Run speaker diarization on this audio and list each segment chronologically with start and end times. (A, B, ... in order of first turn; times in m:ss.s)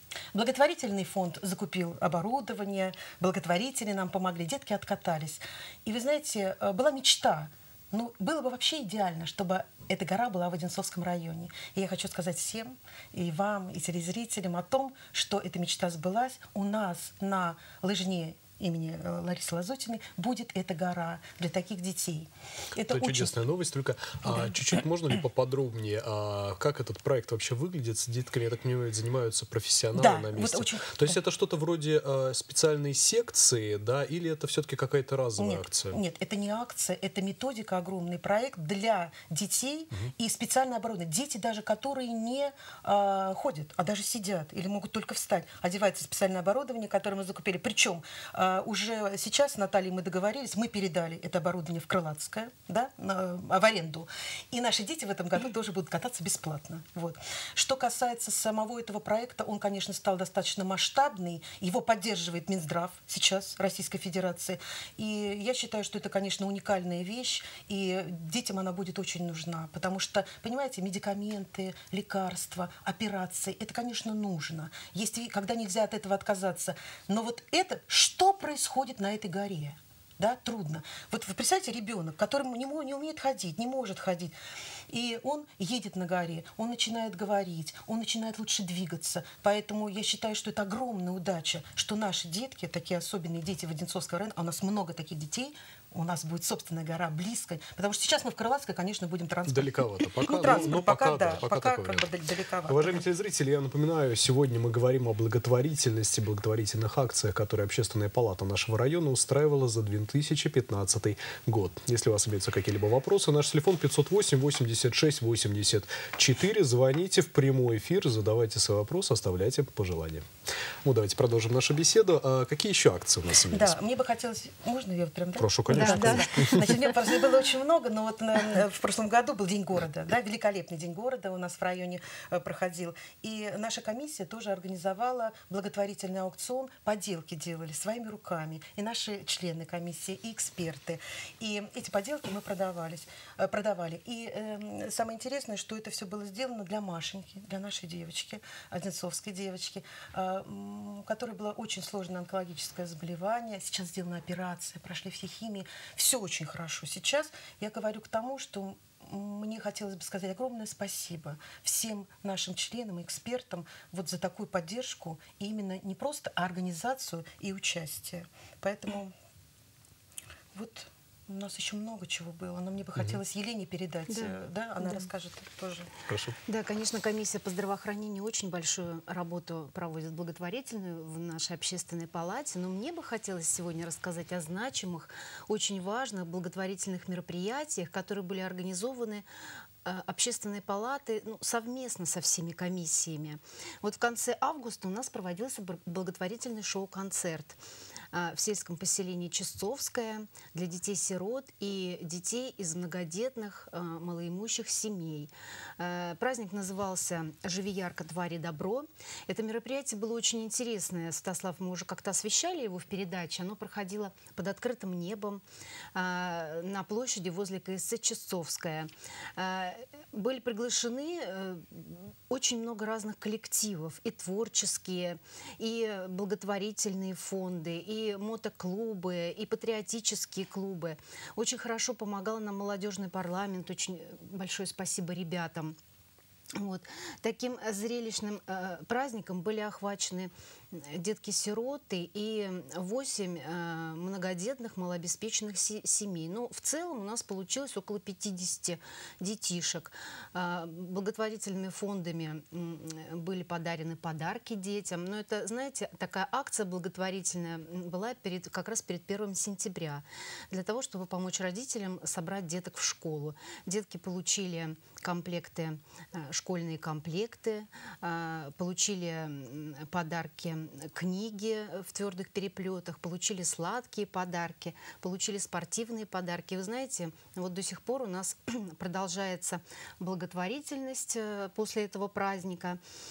0:00.3-0:23.4 A
0:22.9-0:36.0 B
0:24.2-0:24.5 A
0:29.9-0:31.2 A
0:35.4-1:24.3 A
1:24.9-1:43.0 A
1:39.5-1:42.1 B
1:42.7-2:00.3 B
2:00.8-2:03.8 B
2:03.5-2:49.1 A
2:05.4-2:06.7 B
2:05.7-2:06.3 C
2:50.5-2:55.9 A
2:54.1-2:55.1 C
2:56.1-2:56.4 B
2:56.5-3:09.2 C
3:09.8-3:17.6 C
3:18.1-3:35.4 C
3:35.9-3:55.8 C
3:56.6-4:42.8 C